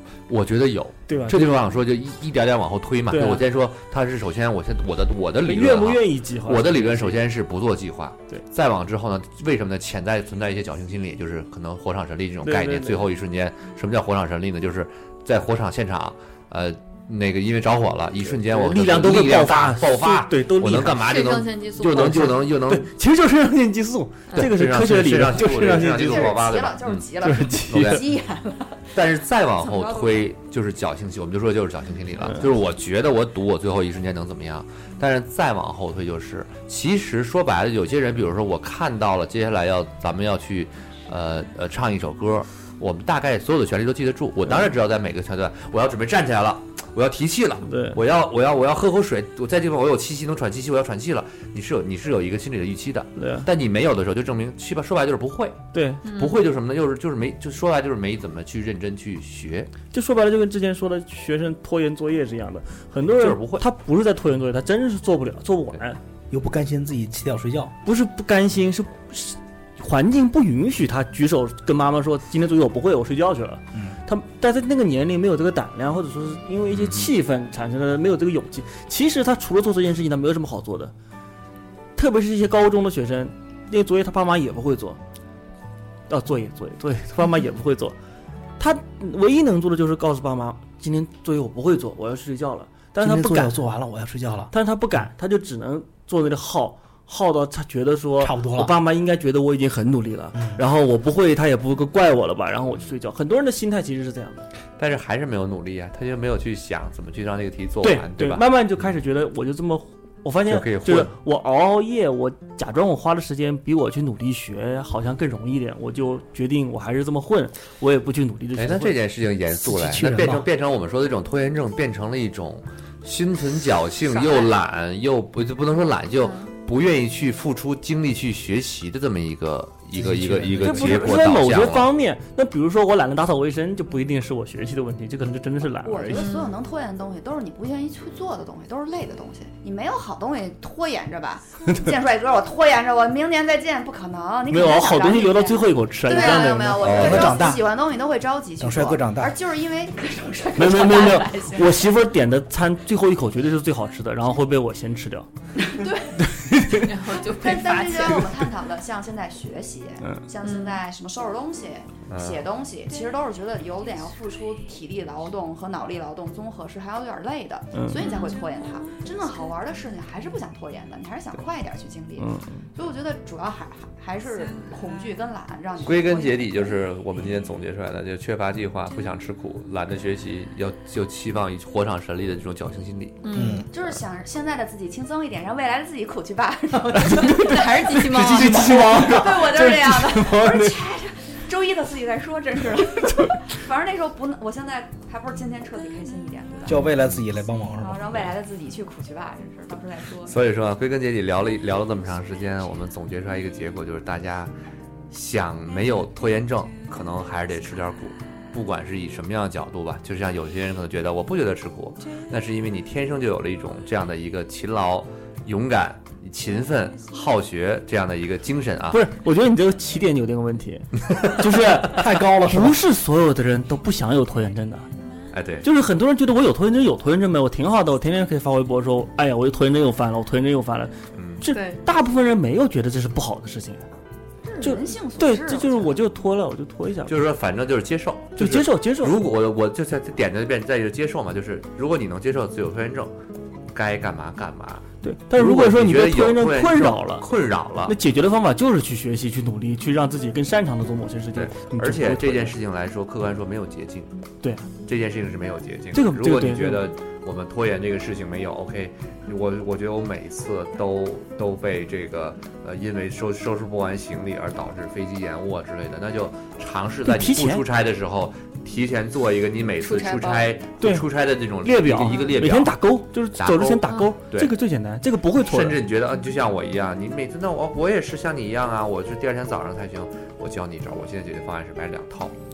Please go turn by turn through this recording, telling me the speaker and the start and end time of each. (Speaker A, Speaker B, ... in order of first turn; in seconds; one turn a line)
Speaker A: 0.3-22.9
Speaker B: 1.1-1.6
Speaker B: 3.1-3.4
Speaker B: 5.4-7.2
Speaker B: 12.4-13.0
Speaker B: 18.3-21.0
Speaker C: 20.9-22.2
Speaker B: 21.9-26.4
Speaker A: 24.3-27.1
Speaker D: 25.8-28.9
Speaker B: 27.2-28.0
Speaker A: 27.7-28.1
Speaker A: 28.9-59.7
Speaker D: 29.6-30.3
Speaker B: 47.6-48.0
Speaker B: 53.2-53.5
Speaker B: 55.7-56.0
Speaker C: 56.0-56.4
Speaker B: 59.9-66.0
Speaker A: 63.2-63.6
Speaker E: 66.3-67.7
Speaker B: 67.8-80.9
Speaker A: 76.7-77.1
Speaker B: 82.0-85.0
Speaker B: 86.1-88.0
Speaker B: 88.6-93.5
Speaker E: 93.0-94.5
Speaker B: 94.5-104.5
Speaker E: 98.2-98.7
Speaker E: 100.3-100.6
Speaker A: 104.8-108.4
Speaker B: 107.8-119.0
Speaker A: 110.5-111.1
Speaker A: 118.5-131.9
Speaker E: 119.6-120.4
Speaker D: 124.1-124.5
Speaker C: 126.2-126.5
Speaker E: 129.9-131.0
Speaker B: 130.6-136.3
Speaker D: 135.8-151.9
Speaker C: 136.1-136.5
Speaker B: 144.5-147.1
Speaker A: 146.8-147.4
Speaker E: 146.8-147.6
Speaker E: 148.6-149.3
Speaker B: 150.6-155.3
Speaker D: 155.6-156.2
Speaker B: 156.2-156.9
Speaker C: 156.7-158.0
Speaker D: 157.4-176.8
Speaker B: 157.7-158.3
Speaker C: 160.4-160.8
Speaker A: 162.1-162.4
Speaker B: 167.7-168.0
Speaker C: 168.0-168.4
Speaker B: 172.2-172.6
Speaker A: 175.8-183.2
Speaker C: 183.2-183.6
Speaker E: 183.3-183.6
Speaker D: 183.7-187.8
Speaker B: 186.9-190.8
Speaker C: 187.4-188.6
Speaker E: 188.3-189.2
Speaker D: 188.5-196.8
Speaker E: 196.7-198.2
Speaker A: 196.7-197.2
Speaker D: 197.8-200.4
Speaker A: 200.3-204.5
Speaker A: 205.1-219.1
Speaker B: 218.9-224.9
Speaker E: 221.8-222.8
Speaker A: 225.3-225.7
Speaker B: 225.6-233.8
Speaker A: 231.1-231.4
Speaker C: 231.5-231.8
Speaker D: 234.4-235.9
Speaker B: 234.6-237.1
Speaker A: 237.1-243.1
Speaker B: 238.3-239.2
Speaker A: 243.7-247.9
Speaker B: 245.0-247.2
Speaker B: 247.8-252.5
Speaker A: 251.3-254.1
Speaker B: 254.4-254.7
Speaker A: 254.8-272.8
Speaker B: 255.9-256.9
Speaker B: 267.1-267.6
Speaker C: 269.8-270.5
Speaker B: 270.8-271.1
Speaker B: 271.6-275.8
Speaker A: 273.4-274.5
Speaker A: 275.4-282.3